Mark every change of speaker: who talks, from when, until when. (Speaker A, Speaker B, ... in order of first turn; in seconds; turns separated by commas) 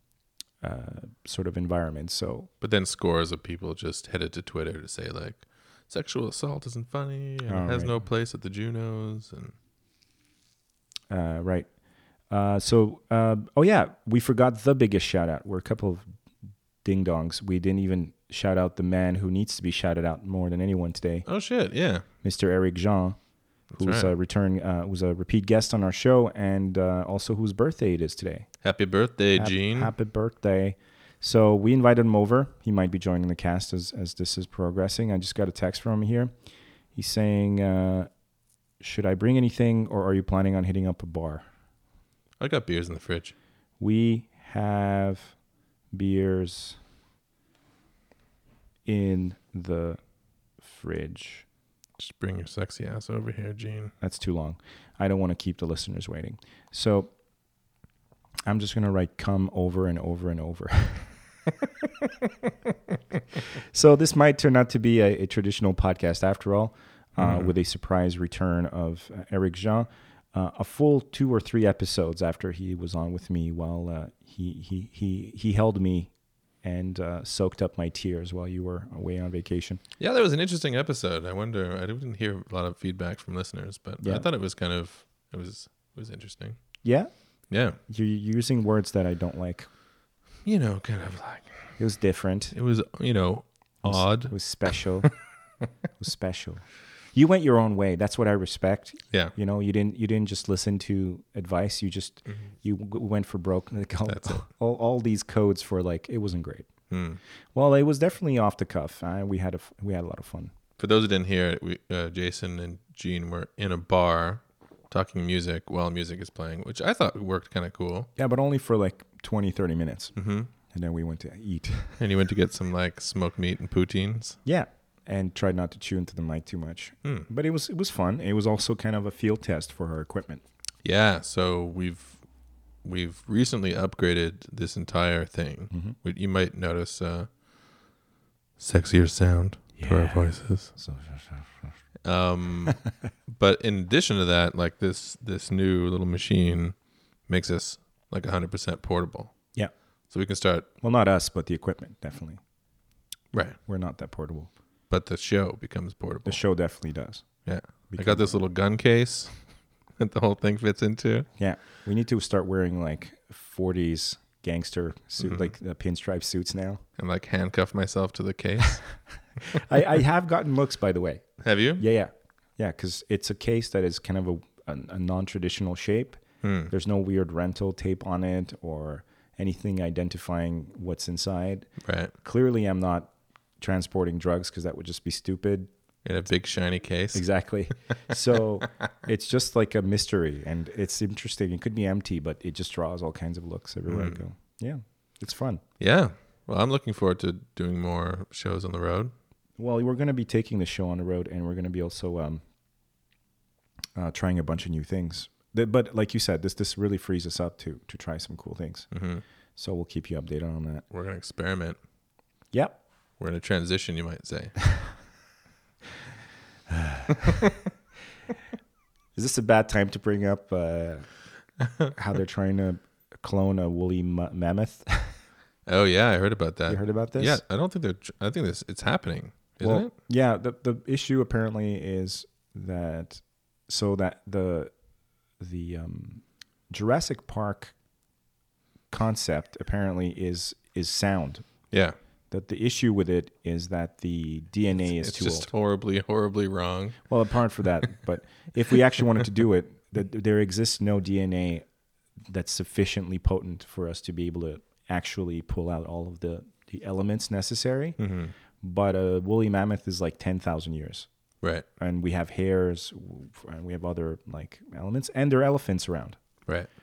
Speaker A: 0.6-2.5, Speaker B: 2.6-9.6, Speaker A: 7.5-8.0, Speaker A: 11.1-11.7, Speaker A: 12.3-16.1, Speaker A: 16.8-21.3, Speaker B: 21.3-22.1, Speaker A: 22.2-28.5, Speaker B: 23.7-24.1, Speaker B: 28.6-29.9, Speaker A: 29.4-36.3, Speaker A: 36.9-38.1, Speaker A: 38.8-41.5, Speaker B: 42.4-43.4, Speaker A: 43.8-45.4, Speaker A: 45.9-46.8, Speaker A: 48.9-50.0, Speaker A: 50.6-51.5, Speaker B: 52.0-53.9, Speaker A: 54.0-57.1, Speaker A: 58.5-61.2, Speaker A: 63.7-79.8, Speaker B: 67.2-67.5, Speaker B: 80.0-86.8, Speaker A: 84.0-84.3, Speaker A: 86.8-87.1, Speaker B: 87.5-87.8, Speaker A: 87.8-89.7, Speaker B: 90.4-91.8, Speaker A: 91.8-92.6, Speaker B: 92.5-95.1, Speaker A: 93.8-95.2, Speaker A: 96.0-106.7, Speaker B: 104.1-104.5, Speaker B: 106.9-107.2, Speaker A: 107.5-110.5, Speaker B: 110.8-118.1, Speaker A: 118.2-122.0, Speaker B: 120.2-120.5, Speaker B: 122.0-124.4, Speaker A: 124.5-130.4, Speaker B: 130.8-132.2, Speaker B: 132.8-137.3, Speaker A: 135.7-136.0, Speaker B: 138.6-140.7, Speaker A: 139.8-141.7, Speaker B: 142.0-146.8, Speaker B: 147.3-149.3, Speaker B: 150.1-150.7, Speaker A: 150.8-152.4, Speaker B: 153.3-153.6, Speaker A: 153.7-154.5, Speaker B: 154.9-156.4, Speaker A: 156.2-158.4, Speaker B: 157.4-161.3, Speaker A: 161.4-166.8, Speaker B: 165.2-165.5, Speaker B: 167.0-169.0, Speaker A: 169.5-185.7, Speaker B: 171.4-171.8, Speaker B: 176.4-176.7, Speaker B: 181.8-182.1, Speaker B: 186.0-187.5, Speaker A: 187.1-195.6, Speaker B: 193.9-194.2, Speaker B: 195.8-199.1, Speaker A: 199.6-202.4, Speaker A: 204.0-208.9, Speaker B: 208.9-209.2, Speaker A: 209.6-210.8, Speaker B: 210.9-211.8, Speaker A: 212.5-212.8, Speaker B: 213.2-214.8, Speaker A: 216.7-217.1, Speaker A: 219.2-221.2, Speaker A: 221.9-225.2, Speaker B: 225.7-229.9, Speaker A: 226.7-227.4, Speaker A: 229.6-234.7, Speaker A: 235.4-237.8, Speaker A: 238.9-241.7, Speaker B: 241.7-242.0, Speaker A: 242.3-245.5, Speaker B: 244.8-247.1, Speaker A: 247.1-251.7, Speaker A: 252.3-258.0, Speaker B: 258.0-258.3, Speaker A: 258.6-261.1, Speaker A: 261.8-266.2